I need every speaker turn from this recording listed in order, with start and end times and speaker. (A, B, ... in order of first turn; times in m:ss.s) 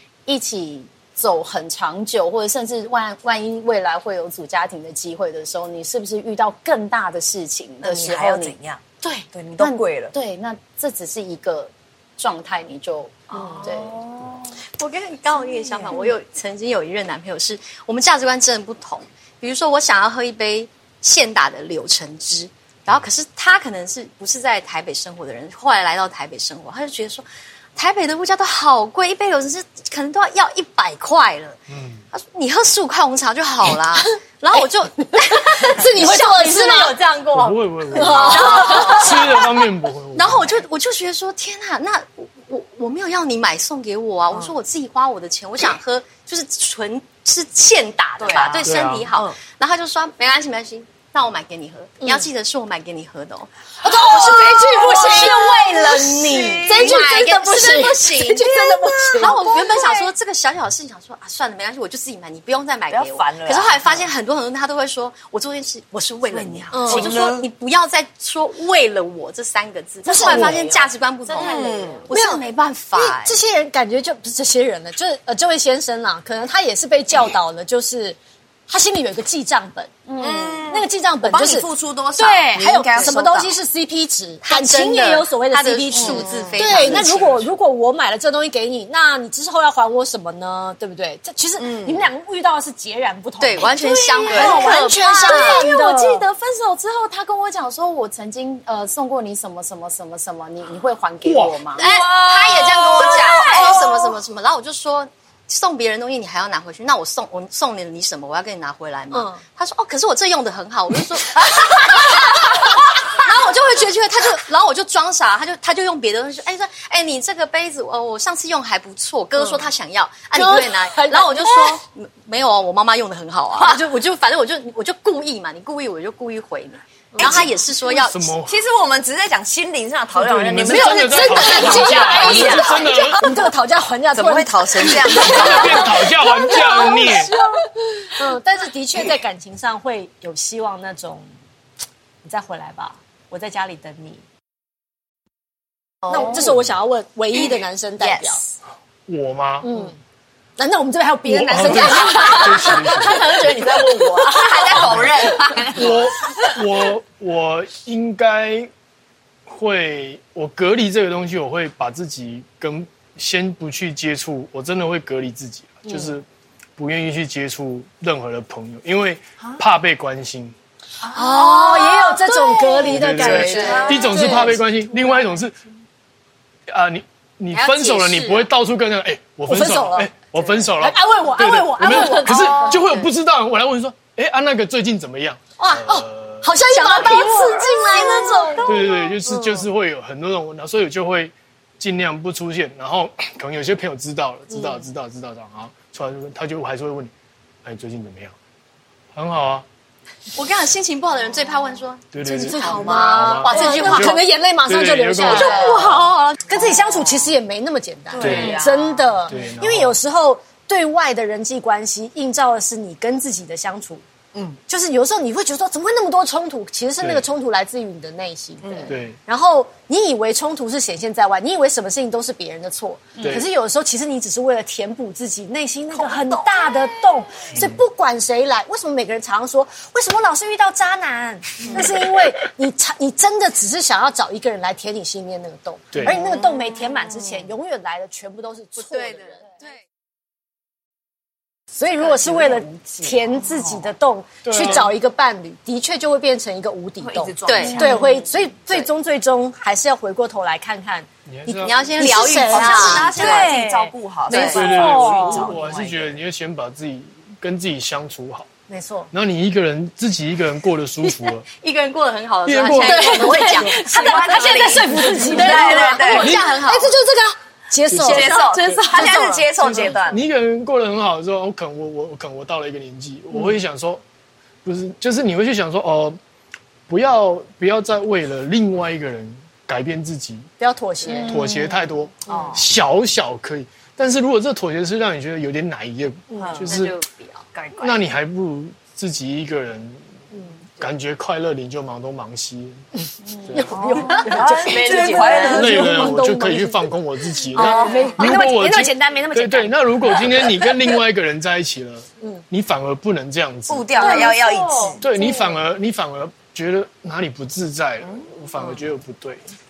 0:00.3-0:08.6 A
0:07.8-0:08.8 B
0:09.3-0:10.1 B
0:09.6-0:14.0 A
0:13.4-0:13.6 C
0:13.4-0:14.0 B
0:13.8-0:31.6 D
0:31.7-0:32.0 E
0:32.1-0:53.5 D
0:35.6-0:37.0 C
0:37.3-0:40.6 E
0:38.0-0:39.1 C
0:38.3-0:38.6 B
0:48.2-0:49.3 B
0:48.6-0:49.1 E
0:53.8-0:59.4 C
0:53.8-0:57.1 B
0:55.0-0:58.6 D
0:58.6-1:00.1 B
0:59.2-1:13.4 D
1:02.9-1:04.1 B
1:06.3-1:07.1 C
1:06.8-1:07.5 B
1:10.0-1:10.7 C
1:10.1-1:11.9 A
1:11.3-1:12.1 B
1:12.1-1:12.4 C
1:12.9-1:19.9 C
1:20.1-1:20.7 A
1:20.2-1:23.6 B
1:20.7-1:36.3 C
1:24.4-1:27.5 D
1:25.9-1:27.0 B
1:31.6-1:32.1 B
1:33.4-1:35.6 D
1:34.3-1:34.7 B
1:34.3-1:41.9 A
1:41.2-1:41.6 E
1:41.8-2:08.3 D
1:41.8-1:44.1 B
1:49.1-1:49.4 C
1:59.4-1:59.6 C
2:00.3-2:01.8 C
2:03.6-2:03.8 B
2:07.1-2:07.5 C
2:07.9-2:08.6 E
2:08.5-2:12.9 B
2:10.1-2:13.2 E
2:10.7-2:21.3 C
2:14.1-2:16.0 B
2:14.8-2:17.3 E
2:22.2-2:24.2 C
2:26.1-2:28.4 C
2:28.0-2:28.6 B
2:29.1-2:29.7 E
2:29.6-2:30.0 C
2:30.6-2:34.7 C
2:31.4-2:33.4 E
2:31.7-2:36.4 B
2:34.7-2:35.2 E
2:35.7-2:38.7 E
2:39.5-2:46.2 E
2:45.8-2:46.2 C
2:46.8-2:50.6 E
2:51.1-2:54.4 B
2:51.1-2:54.6 C
2:52.8-2:55.6 E
2:56.7-3:06.5 E
2:57.5-2:58.5 D
2:59.5-3:00.1 C
3:00.8-3:02.5 C
3:02.1-3:03.1 D
3:02.3-3:02.8 B
3:05.6-3:09.7 C
3:06.7-3:08.6 D
3:08.6-3:17.1 E
3:14.5-3:14.9 C
3:17.6-3:18.4 E
3:19.1-3:19.7 E
3:20.3-3:24.2 D
3:22.1-3:23.7 E
3:22.2-3:34.0 C
3:23.5-3:24.1 B
3:24.6-3:25.7 E
3:25.2-3:27.4 B
3:25.4-3:26.1 D
3:28.1-3:29.2 B
3:28.2-3:28.6 E
3:29.3-3:30.0 E
3:34.3-3:34.6 B
3:34.7-3:59.6 C
3:37.0-3:37.3 E
3:38.6-3:39.0 B
3:38.9-3:39.2 E
3:46.0-3:46.7 B
3:58.8-3:59.8 D
4:01.7-4:15.6 C
4:02.0-4:03.9 B
4:04.4-4:04.9 E
4:07.0-4:08.0 B
4:07.5-4:08.2 D
4:11.3-4:12.2 E
4:11.6-4:13.5 D
4:12.4-4:16.2 B
4:14.3-4:14.6 D
4:14.3-4:18.5 E
4:18.7-4:19.1 C
4:19.1-4:21.4 E
4:21.0-4:21.3 C
4:21.6-4:27.0 D
4:22.5-4:23.8 E
4:22.8-4:28.3 C
4:23.8-4:26.4 B
4:26.2-4:26.4 E
4:27.9-4:28.3 E
4:28.0-4:30.2 B
4:28.1-4:29.8 D
4:29.8-4:34.0 E
4:34.6-4:36.2 E
4:36.9-4:40.5 E
4:40.6-4:41.5 C
4:41.1-4:41.8 A
4:41.2-4:47.0 E
4:42.3-4:42.7 B
4:46.3-4:46.6 C
4:46.4-4:46.8 B
4:46.7-4:47.7 D
4:47.8-4:50.1 E
4:50.8-4:52.8 E
4:53.4-4:53.8 E
4:53.5-4:56.9 C
4:53.7-4:56.1 B
4:55.1-4:55.4 D
4:55.5-5:03.9 E
4:57.5-5:00.2 C
4:57.6-4:58.2 B
5:03.7-5:05.0 B
5:04.0-5:04.4 C
5:04.0-5:05.0 A
5:05.0-5:09.4 E